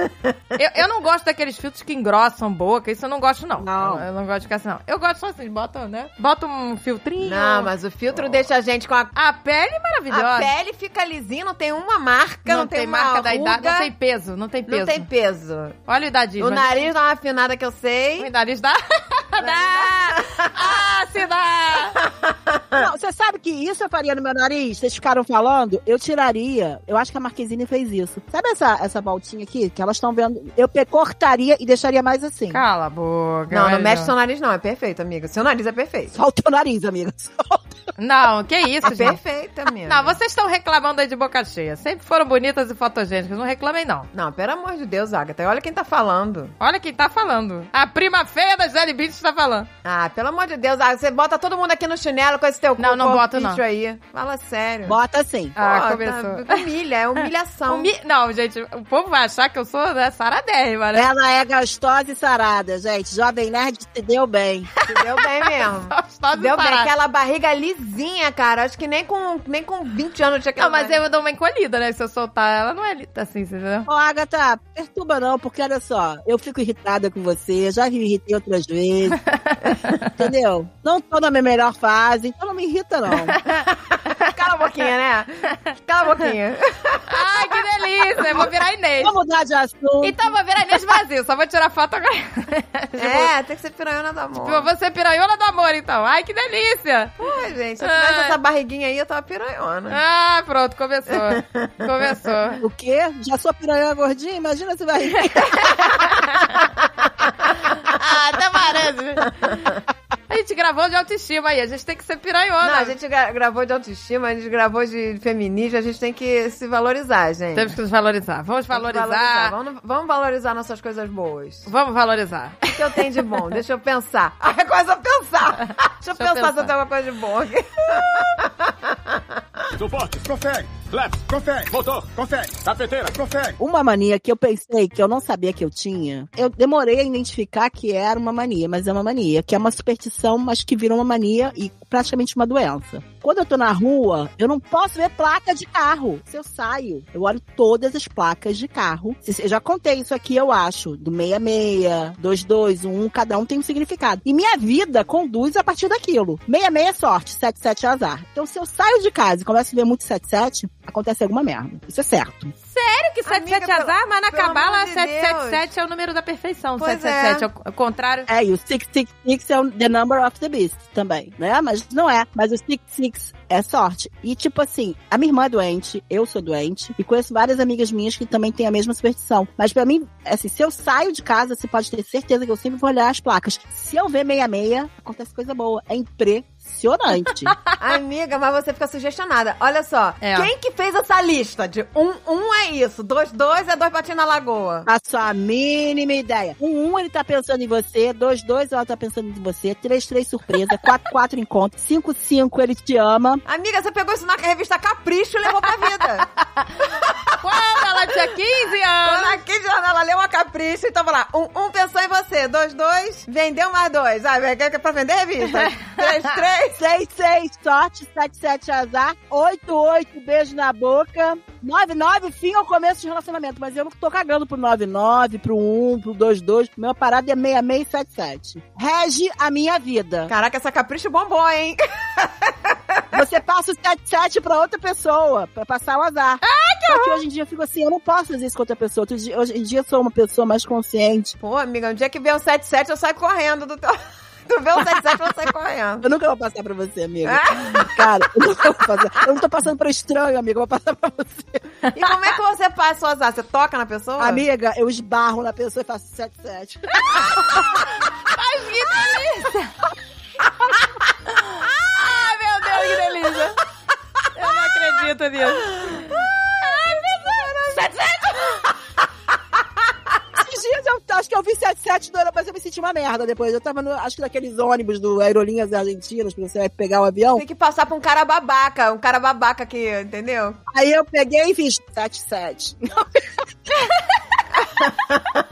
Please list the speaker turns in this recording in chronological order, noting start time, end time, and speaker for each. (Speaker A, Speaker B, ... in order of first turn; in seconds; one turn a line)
Speaker A: 0.5-8.3
Speaker B: 3.6-4.0
Speaker C: 7.2-9.1
Speaker A: 9.2-10.5
Speaker C: 10.1-13.9
Speaker A: 12.5-15.1
Speaker C: 14.7-15.8
Speaker A: 15.9-16.9
Speaker C: 16.4-18.3
Speaker A: 18.2-22.0
Speaker C: 19.4-20.8
Speaker C: 22.0-22.8
Speaker B: 22.8-32.6
Speaker A: 32.5-34.1
Speaker C: 33.5-36.1
Speaker B: 36.1-37.7
Speaker A: 38.0-39.2
Speaker C: 38.9-40.1
Speaker A: 39.9-44.1
Speaker C: 44.1-46.5
Speaker A: 46.6-49.7
Speaker C: 49.8-55.0
Speaker A: 52.8-53.6
Speaker B: 54.9-55.6
Speaker A: 55.6-56.7
Speaker C: 55.6-57.9
Speaker A: 57.7-61.1
Speaker B: 60.9-64.7
Speaker A: 64.8-66.9
Speaker C: 64.8-71.0
Speaker A: 70.6-73.9
Speaker B: 73.9-79.2
Speaker A: 79.3-80.0
Speaker B: 80.2-83.4
Speaker A: 83.1-84.7
Speaker C: 84.2-87.6
Speaker A: 87.1-89.1
Speaker B: 89.0-90.2
Speaker A: 90.0-93.3
Speaker C: 93.0-94.7
Speaker A: 94.4-97.2
Speaker C: 97.2-100.0
Speaker A: 97.8-98.3
Speaker A: 99.9-102.6
Speaker C: 101.1-101.9
Speaker B: 102.6-106.1
Speaker A: 105.3-106.7
Speaker A: 107.8-109.5
Speaker C: 109.4-109.8
Speaker A: 110.3-112.9
Speaker C: 112.6-117.8
Speaker A: 117.5-119.5
Speaker C: 118.7-121.7
Speaker A: 121.7-123.3
Speaker C: 122.7-129.2
Speaker A: 126.2-126.7
Speaker A: 128.0-128.2
Speaker D: 129.8-133.6
Speaker B: 133.6-162.5
Speaker A: 162.7-168.3
Speaker C: 163.2-165.7
Speaker C: 166.8-167.5
Speaker B: 168.3-187.6
Speaker C: 187.8-194.9
Speaker A: 190.2-190.5
Speaker B: 194.9-203.4
Speaker C: 203.4-206.3
Speaker C: 207.0-207.3
Speaker A: 207.4-209.4
Speaker C: 209.0-216.8
Speaker B: 216.8-230.3
Speaker C: 230.3-233.2
Speaker B: 233.1-241.4
Speaker A: 236.4-237.2
Speaker C: 241.4-246.1
Speaker B: 246.0-251.6
Speaker C: 247.2-248.2
Speaker C: 251.9-254.4
Speaker B: 254.2-257.3
Speaker A: 257.1-259.7
Speaker A: 261.3-263.6
Speaker A: 264.3-268.6
Speaker C: 265.6-267.9
Speaker B: 270.4-277.4
Speaker C: 277.4-280.6
Speaker B: 280.7-283.4